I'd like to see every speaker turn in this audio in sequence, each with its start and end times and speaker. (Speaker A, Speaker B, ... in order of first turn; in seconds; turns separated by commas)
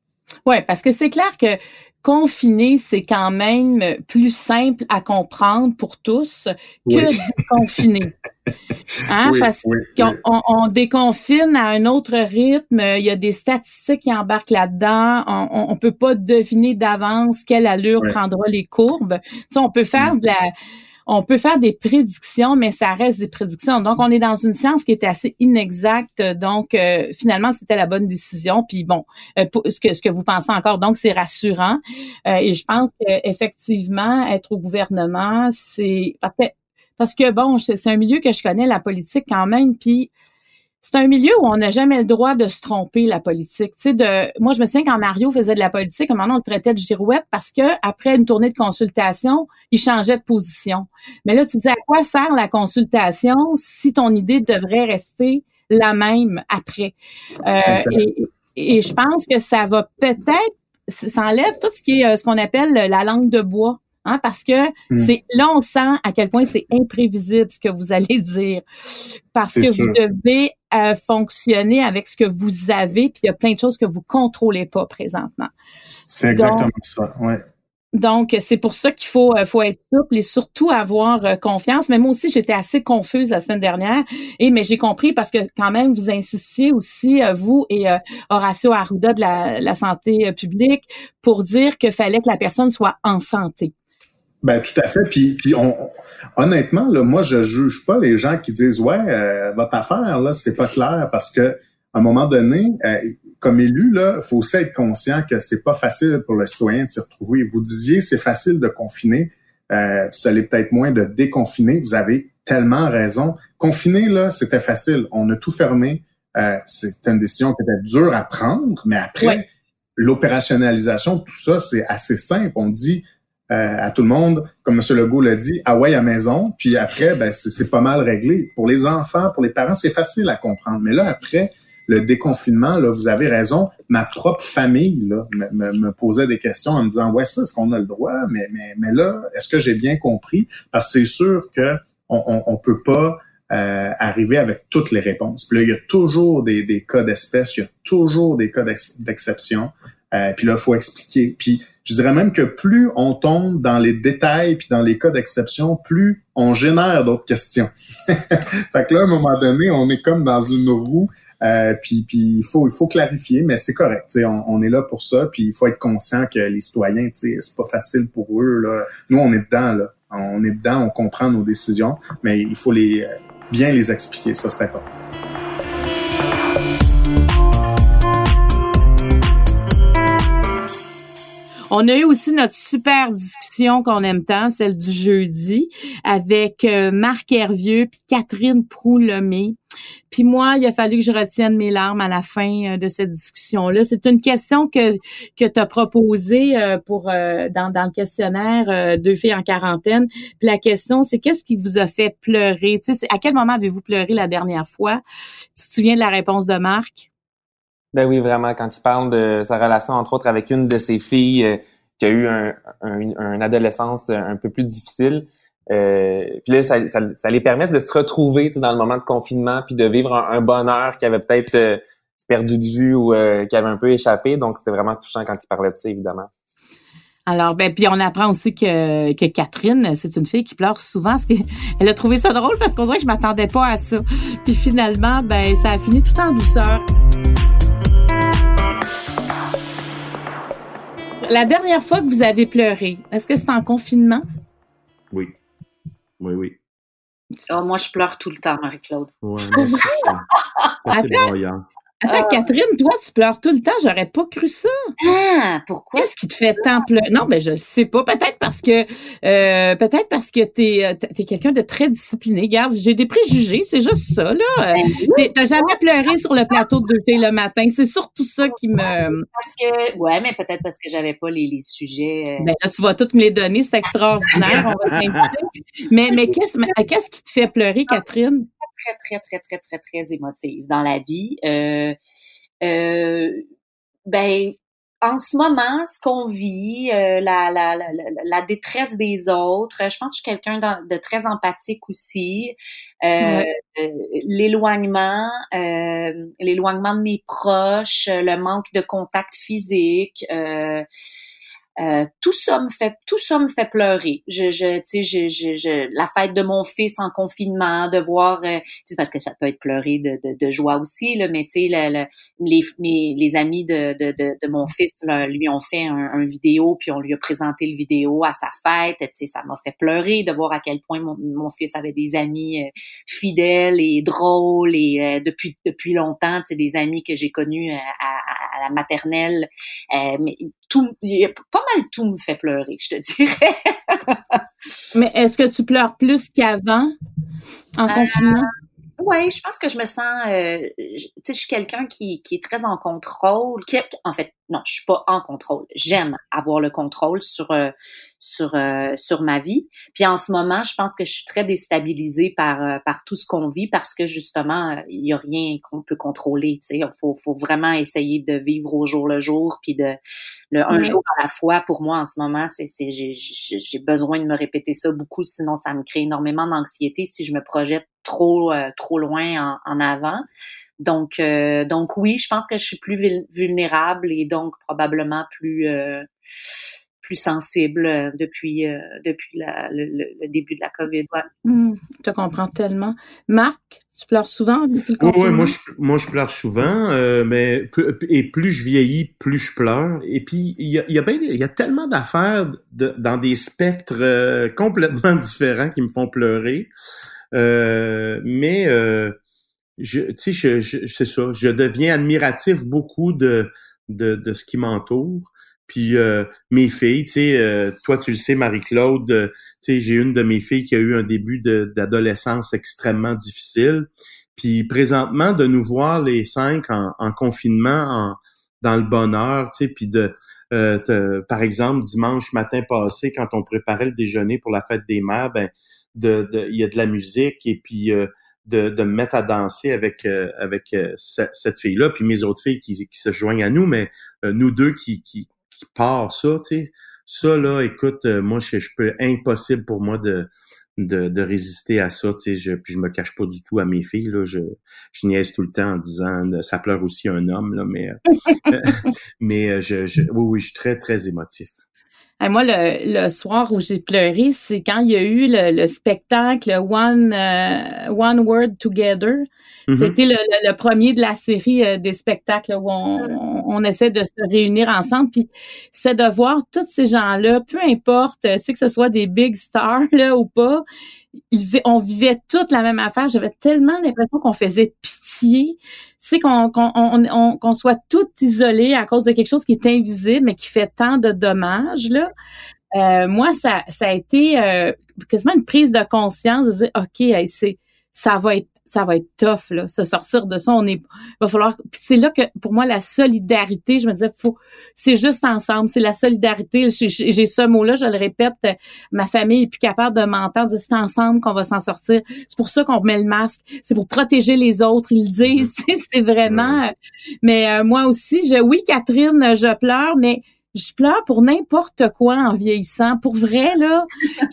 Speaker A: 0.5-8.1, Speaker B: 6.8-7.6, Speaker A: 9.1-20.4, Speaker B: 9.2-10.2, Speaker A: 21.1-40.1, Speaker A: 40.8-68.6, Speaker B: 57.6-58.1, Speaker A: 69.3-75.5, Speaker B: 69.5-70.0, Speaker B: 76.1-77.4, Speaker A: 76.3-76.7, Speaker A: 77.9-93.7, Speaker B: 94.4-174.8, Speaker A: 181.7-189.6, Speaker A: 190.1-205.0, Speaker A: 205.6-207.1, Speaker C: 207.9-226.3, Speaker A: 227.3-236.8, Speaker A: 241.2-244.2, Speaker D: 246.2-246.6, Speaker E: 247.5-249.1, Speaker D: 249.2-250.2, Speaker A: 249.5-249.9, Speaker D: 250.8-251.6, Speaker A: 250.9-251.3, Speaker A: 252.0-254.7, Speaker E: 252.1-252.4, Speaker E: 255.0-256.1, Speaker A: 255.9-269.2, Speaker E: 264.8-265.7, Speaker E: 268.8-272.5, Speaker A: 272.4-278.5, Speaker E: 278.7-281.9, Speaker E: 282.6-283.4, Speaker E: 284.1-300.9, Speaker A: 293.2-293.5, Speaker E: 301.8-334.4, Speaker A: 334.9-336.9, Speaker A: 337.8-338.5, Speaker E: 337.9-338.4, Speaker E: 339.0-360.0, Speaker E: 360.5-370.2, Speaker A: 360.7-361.0, Speaker E: 370.8-376.1, Speaker E: 377.0-381.2, Speaker A: 381.4-385.5, Speaker D: 385.0-396.7, Speaker D: 397.3-399.1, Speaker D: 399.8-451.6, Speaker A: 452.2-470.6, Speaker D: 459.7-460.0, Speaker A: 471.3-482.1, Speaker A: 482.7-506.7, Speaker D: 506.2-506.6, Speaker A: 507.2-513.9